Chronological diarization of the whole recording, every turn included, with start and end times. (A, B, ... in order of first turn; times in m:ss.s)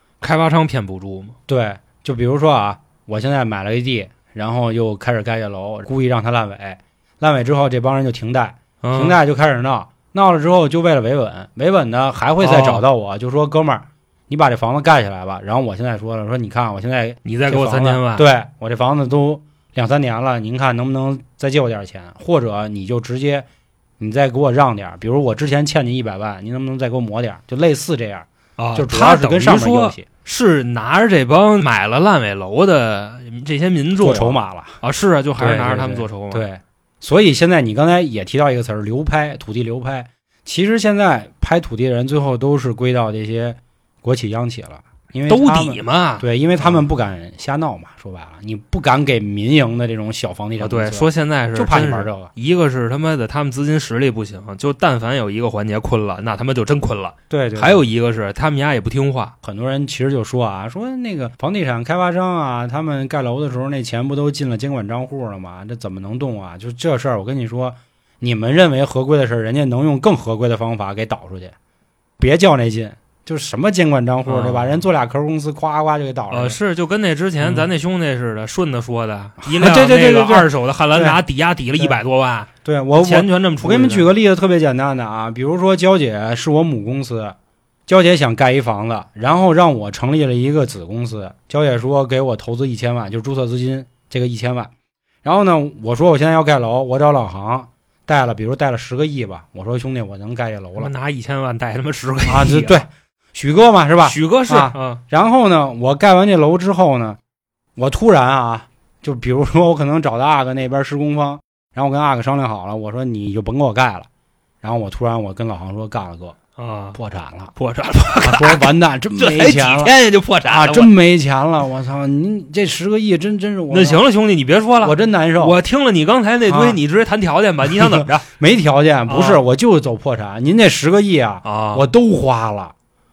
0:00.2-0:01.4 A
0:01.5-0:23.4 B
0:08.8-0:09.2 A
0:12.4-0:12.8 A
0:17.2-0:18.2 A
0:24.0-0:30.0 B
0:28.6-0:36.4 A
0:34.0-0:34.8 B
0:35.4-0:52.3 B
0:45.3-0:46.8 A
0:50.6-0:59.3 A
0:57.3-0:57.8 B
0:59.4-1:11.5 B
1:12.2-1:16.6 B
1:14.2-1:14.8 A
1:16.3-1:24.1 A
1:19.4-1:21.2 B
1:22.6-1:27.3 B
1:27.9-1:34.7 B
1:35.2-1:40.9 B
1:40.8-1:42.8 A
1:42.2-1:47.2 B
1:44.0-1:45.0 A
1:47.8-1:54.1 B
1:54.6-1:56.4 B
1:56.6-1:57.0 A
1:56.9-1:57.5 B
1:57.6-2:00.9 A
1:58.2-2:00.0 B
2:00.5-2:04.0 B
2:03.7-2:08.3 A
2:04.8-2:05.6 B
2:06.5-2:06.8 B
2:07.8-2:12.7 B
2:09.1-2:09.4 A
2:11.4-2:11.8 A